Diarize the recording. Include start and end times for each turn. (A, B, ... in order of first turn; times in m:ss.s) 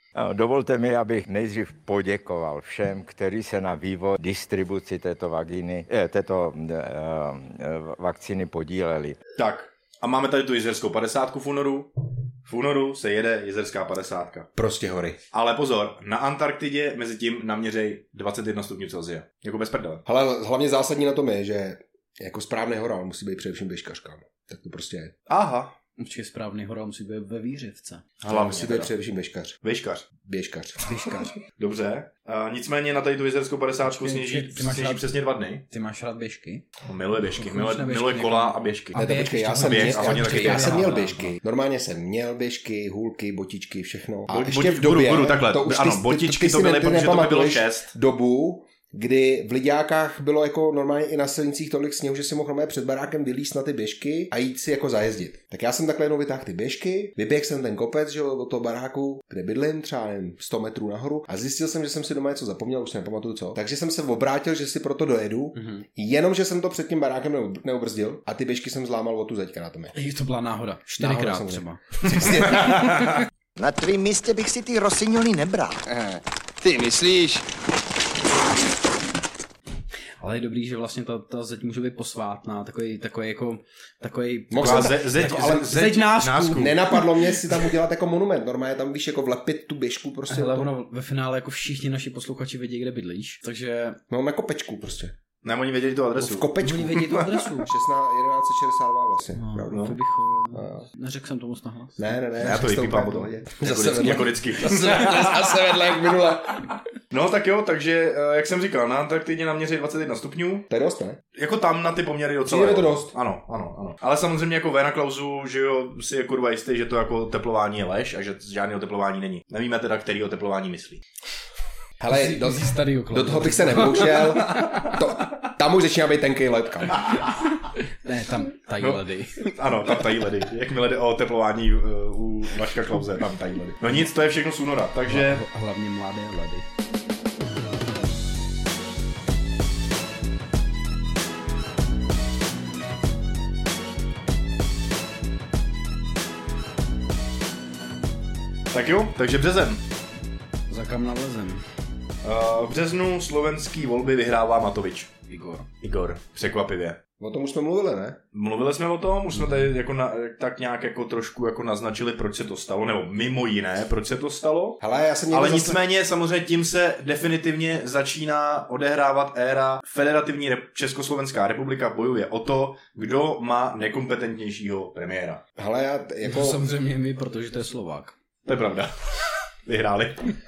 0:00.1-0:09.2 A
0:09.4-0:11.9 B
0:12.4-0:14.5 B
0:14.5-0:15.2 C
0:15.3-0:20.0 B
0:20.0-0:25.1 C
0:25.3-0:25.7 B
0:26.0-0:28.1 D
0:28.2-0:28.9 B
0:28.3-0:29.6 C
0:29.6-0:30.0 B
0:30.2-0:31.0 C
0:30.8-0:31.3 D
0:31.6-0:35.6 B
0:33.8-0:35.1 D
0:35.7-0:36.7 D
0:36.8-0:39.0 B
0:37.3-0:41.3 D
0:38.9-1:10.0 C
0:39.5-0:41.3 B
0:44.3-0:47.9 B
1:05.6-1:05.8 D
1:09.9-1:12.4 D
1:11.0-1:13.2 C
1:12.5-1:13.1 B
1:13.6-1:17.5 E
1:20.2-1:27.2 D
1:24.5-1:25.8 C
1:24.6-1:26.8 B
1:26.5-1:30.7 C
1:30.3-1:34.0 D
1:34.1-1:35.1 C
1:35.4-1:36.5 B
1:36.2-1:40.0 C
1:36.6-1:37.7 D
1:39.4-1:42.1 D
1:39.7-1:40.0 B
1:40.5-1:40.8 C
1:42.0-1:46.8 C
1:42.4-1:45.5 B
1:47.1-1:50.7 B
1:50.7-1:51.2 C
1:51.3-2:01.0 B
1:52.4-1:53.1 C
2:02.0-2:07.1 C
2:02.1-2:05.0 D
2:07.8-2:09.5 D
2:08.8-2:15.4 B
2:15.1-2:16.6 D
2:28.7-2:29.8 B
2:30.7-2:31.6 D
2:32.2-2:35.1 B
2:35.3-2:35.7 D
2:35.8-2:37.0 B
2:37.2-2:38.2 C
2:38.3-2:55.4 B
2:44.8-2:45.8 C
2:55.6-2:56.6 C
2:56.2-2:58.1 D
2:58.4-2:59.1 B
2:59.6-3:00.3 B